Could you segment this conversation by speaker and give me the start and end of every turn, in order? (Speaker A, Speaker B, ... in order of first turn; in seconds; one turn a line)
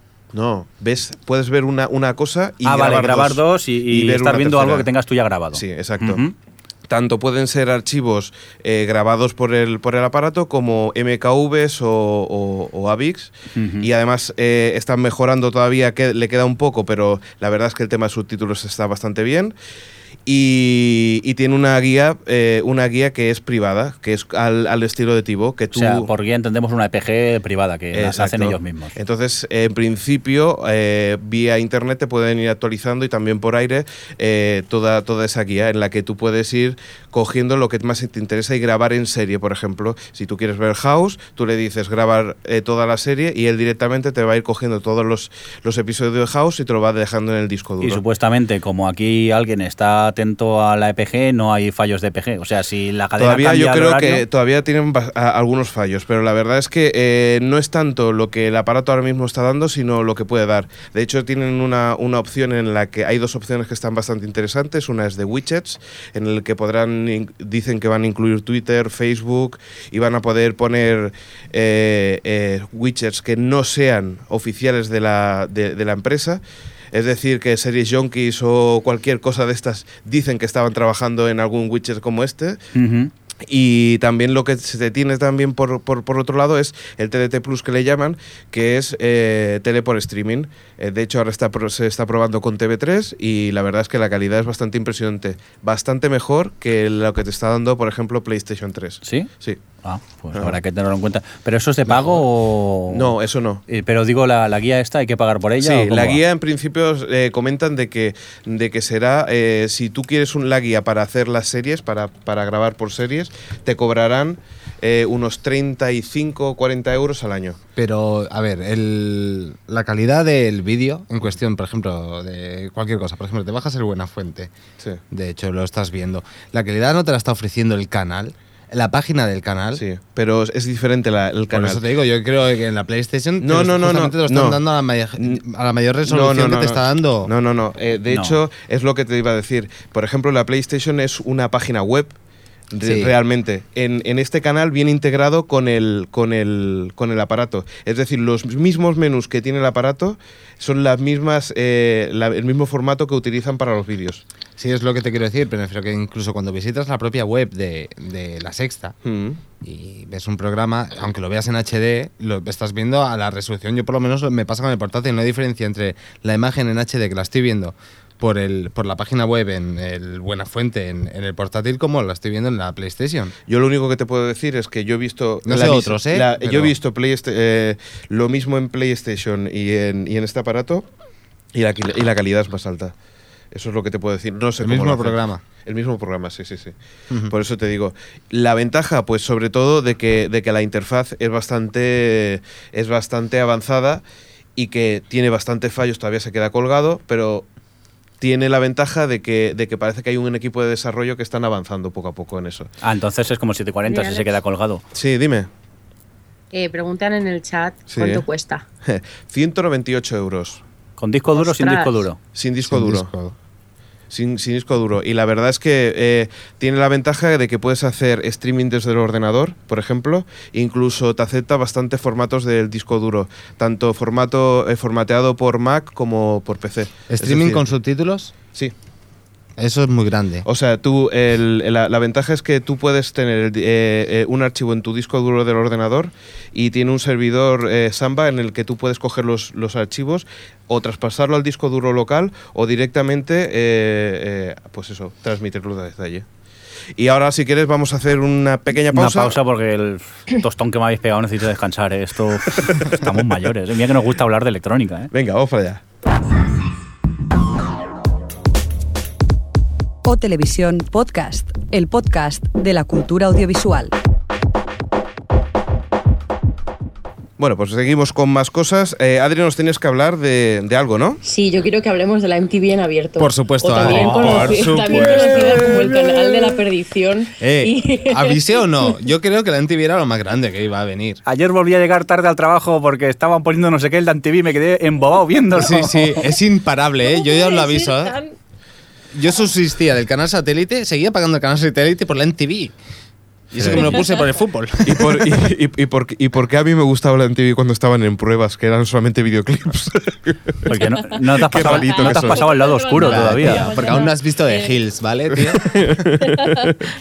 Speaker A: 0.3-4.9
Speaker B: 2.6-6.3
Speaker A: 5.5-6.2
Speaker A: 6.9-19.6
Speaker B: 13.5-13.9
Speaker A: 20.2-26.1
Speaker B: 25.7-28.9
Speaker A: 27.9-48.0
Speaker B: 47.8-54.2
Speaker A: 53.2-76.4
Speaker A: 76.9-82.6
Speaker B: 82.7-83.1
Speaker A: 83.5-99.6
Speaker B: 99.0-99.3
Speaker B: 99.8-103.1
Speaker A: 102.9-103.6
Speaker B: 103.7-106.2
Speaker A: 105.6-117.6
Speaker C: 117.8-124.5
Speaker C: 125.1-129.8
Speaker A: 129.8-131.8
Speaker C: 131.5-137.3
Speaker A: 133.4-134.6
Speaker A: 136.1-142.2
Speaker B: 138.1-138.4
Speaker A: 142.7-154.2
Speaker C: 142.8-143.1
Speaker C: 154.6-158.9
Speaker A: 159.0-159.4
Speaker C: 159.6-173.3
Speaker A: 173.5-180.9
Speaker C: 175.4-176.7
Speaker A: 181.5-182.9
Speaker A: 183.5-186.7
Speaker C: 184.6-185.4
Speaker A: 187.3-194.0
Speaker A: 194.6-197.5
Speaker A: 198.2-202.7
Speaker B: 202.8-204.8
Speaker D: 203.8-204.3
Speaker A: 204.9-205.5
Speaker D: 206.5-208.6
Speaker A: 207.9-208.2
Speaker A: 208.8-210.6
Speaker B: 211.0-212.2
Speaker D: 211.3-212.0
Speaker A: 212.3-213.1
Speaker C: 212.7-213.3
Speaker A: 214.1-227.7
Speaker C: 227.1-228.3
Speaker C: 229.6-230.4
Speaker A: 230.4-246.2
Speaker A: 247.0-249.3
Speaker B: 248.9-255.1
Speaker A: 255.1-255.8
Speaker E: 260.0-263.9
Speaker A: 267.4-271.2
Speaker D: 271.2-278.9
Speaker C: 273.2-275.9
Speaker B: 273.8-274.6
Speaker C: 277.4-281.2
Speaker B: 281.2-286.2
Speaker C: 285.5-288.1
Speaker D: 287.1-288.3
Speaker C: 289.1-292.7
Speaker C: 293.5-295.4
Speaker B: 293.6-293.9
Speaker D: 293.9-294.2
Speaker A: 294.8-300.5
Speaker B: 300.7-303.9
Speaker D: 300.7-304.7
Speaker A: 301.4-302.4
Speaker C: 302.9-305.8
Speaker A: 305.5-306.8
Speaker D: 306.2-306.6